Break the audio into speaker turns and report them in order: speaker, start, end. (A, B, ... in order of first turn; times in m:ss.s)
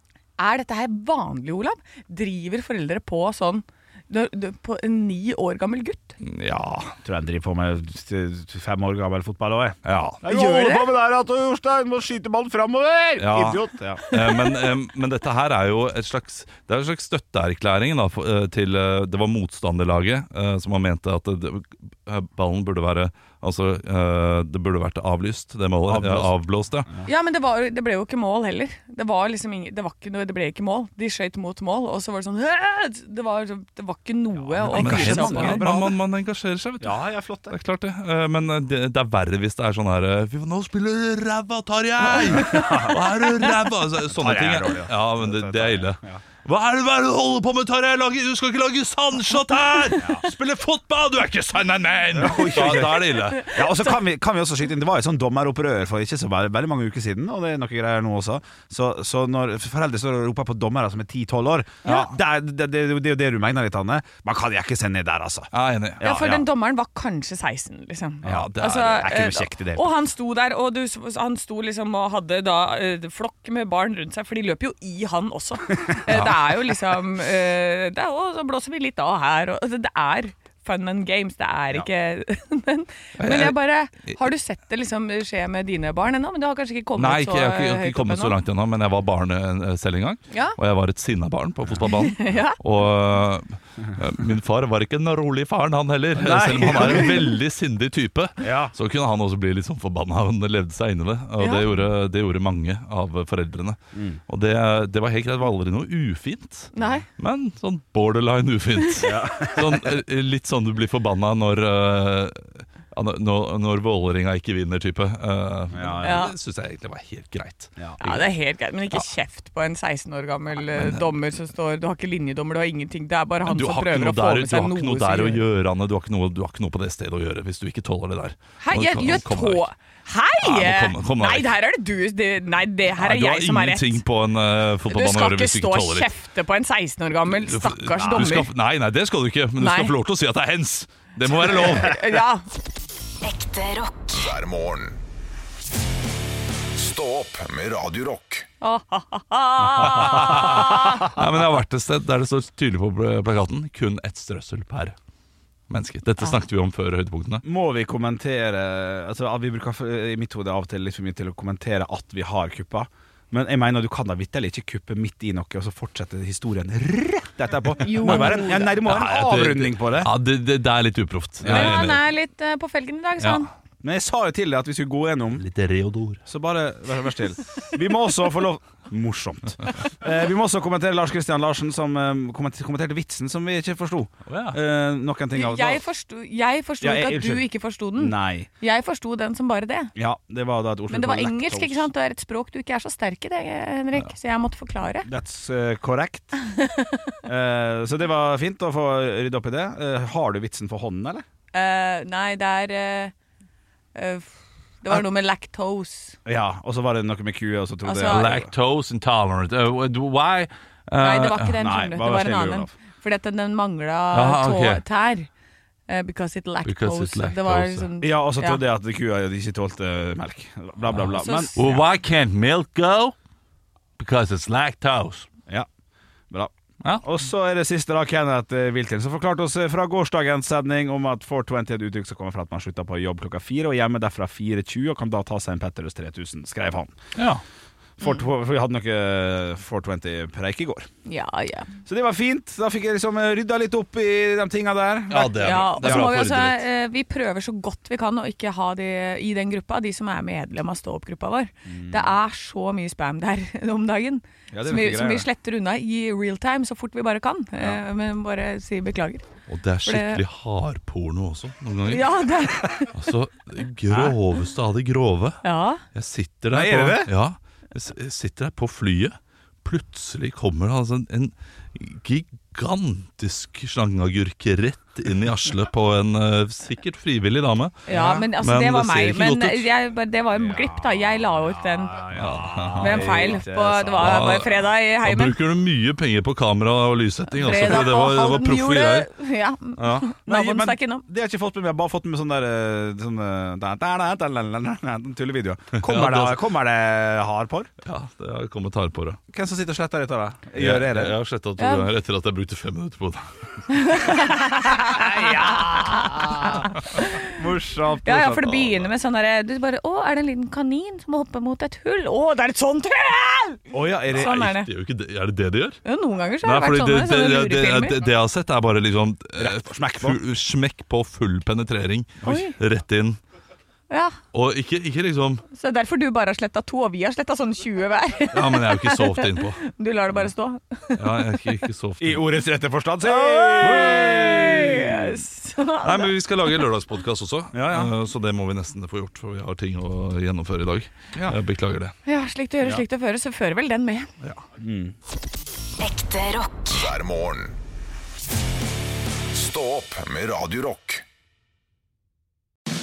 0:00.4-0:06.2 A
0:06.2-0:07.0 B
0:07.0-0:14.0 C
0:09.8-0:10.2 B
0:10.2-0:10.9 A
0:13.2-0:26.9 B
0:14.1-0:14.6 A
0:25.9-0:26.3 C
0:27.0-0:35.6 A
0:34.5-0:36.0 C
0:34.7-0:53.6 B
0:36.8-0:37.5 C
0:42.3-0:43.0 C
0:44.2-0:46.2 C
0:52.1-1:05.5 C
0:53.1-0:53.6 A
1:05.5-1:06.0 B
1:06.0-1:06.5 C
1:06.0-1:28.4 A
1:08.2-1:09.2 B
1:08.2-1:09.9 C
1:16.1-1:16.4 B
1:23.2-1:24.2 B
1:27.0-1:58.3 B
1:30.3-1:30.6 A
1:31.8-1:32.6 A
1:36.2-1:37.3 C
1:38.4-1:38.7 C
1:41.4-1:41.7 A
1:44.0-1:44.2 C
1:46.7-1:47.1 A
1:49.0-1:49.9 C
1:55.7-1:56.2 C
1:56.0-1:56.3 A
1:58.0-2:05.4 A
2:00.7-2:01.1 B
2:03.4-2:09.7 B
2:08.6-2:14.0 A
2:10.4-2:11.5 B
2:13.0-2:16.1 B
2:14.9-2:18.5 A
2:17.3-2:21.9 B
2:19.6-2:20.0 A
2:21.3-2:22.4 A
2:23.2-2:24.3 D
2:24.1-2:25.0 E
2:26.8-2:28.5 E
2:28.6-2:31.0 A
2:29.8-2:35.0 B
2:29.9-2:31.1 C
2:35.7-2:37.4 B
2:37.4-2:50.1 C
2:47.8-2:48.8 A
2:48.0-2:52.0 B
2:51.4-2:52.0 C
2:51.5-2:53.5 A
2:53.2-2:53.5 B
2:53.8-2:55.4 C
2:55.4-2:56.2 B
2:56.2-3:05.8 C
3:04.3-3:04.6 B
3:05.3-3:09.9 A
3:06.8-3:08.5 C
3:10.0-3:11.9 C
3:10.9-3:15.1 A
3:15.0-3:16.4 C
3:16.5-3:17.0 A
3:17.3-3:21.2 C
3:21.5-3:23.1 A
3:24.0-3:26.2 A
3:26.3-3:28.5 C
3:27.8-3:28.3 A
3:28.0-3:31.6 B
3:31.0-3:35.3 A
3:31.6-3:32.7 C
3:34.1-3:34.8 B
3:35.9-3:38.6 A
3:36.6-3:37.9 B
3:38.0-3:41.8 C
3:40.9-3:43.2 B
3:41.1-3:41.7 A
3:44.0-3:45.3 B
3:47.0-3:57.0 C
3:57.2-3:57.4 B
3:58.0-4:00.9 C
4:01.1-4:01.7 A
4:01.9-4:06.1 C
4:05.1-4:06.6 B
4:05.4-4:19.3 A
4:11.7-4:12.2 C
4:14.5-4:15.3 C
4:19.5-4:25.4 B
4:19.8-4:20.2 A
4:21.9-4:22.9 A
4:23.9-4:24.2 C
4:25.4-4:25.8 A
4:25.9-4:39.7 B
4:26.5-4:27.1 C
4:37.9-4:42.1 A
4:40.3-4:44.5 C
4:42.2-4:49.1 B
4:42.8-4:45.4 A
4:47.4-4:51.1 A
4:49.8-4:57.7 C
4:55.8-4:56.4 B
4:57.8-4:59.2 B
4:59.3-5:01.2 C
5:00.6-5:03.6 B
5:01.6-5:01.9 A
5:03.7-5:07.4 A
5:04.9-5:08.6 C
5:08.0-5:14.7 A
5:13.7-5:14.4 C
5:14.1-5:15.8 B
5:15.8-5:18.0 A
5:16.4-5:23.2 B
5:19.4-5:20.2 C
5:22.2-5:22.6 A
5:23.9-5:24.2 A
5:24.3-5:25.4 B
5:25.5-5:31.4 A
5:28.3-5:29.6 B
5:31.0-5:32.3 B
5:32.0-5:35.2 C
5:33.0-5:36.5 A
5:33.6-5:34.6 B
5:35.8-5:42.0 B
5:37.5-5:37.9 C
5:42.0-5:44.1 A
5:44.6-5:45.0 C
5:45.8-5:47.0 D
5:46.7-5:47.6 E
5:49.3-5:51.0 E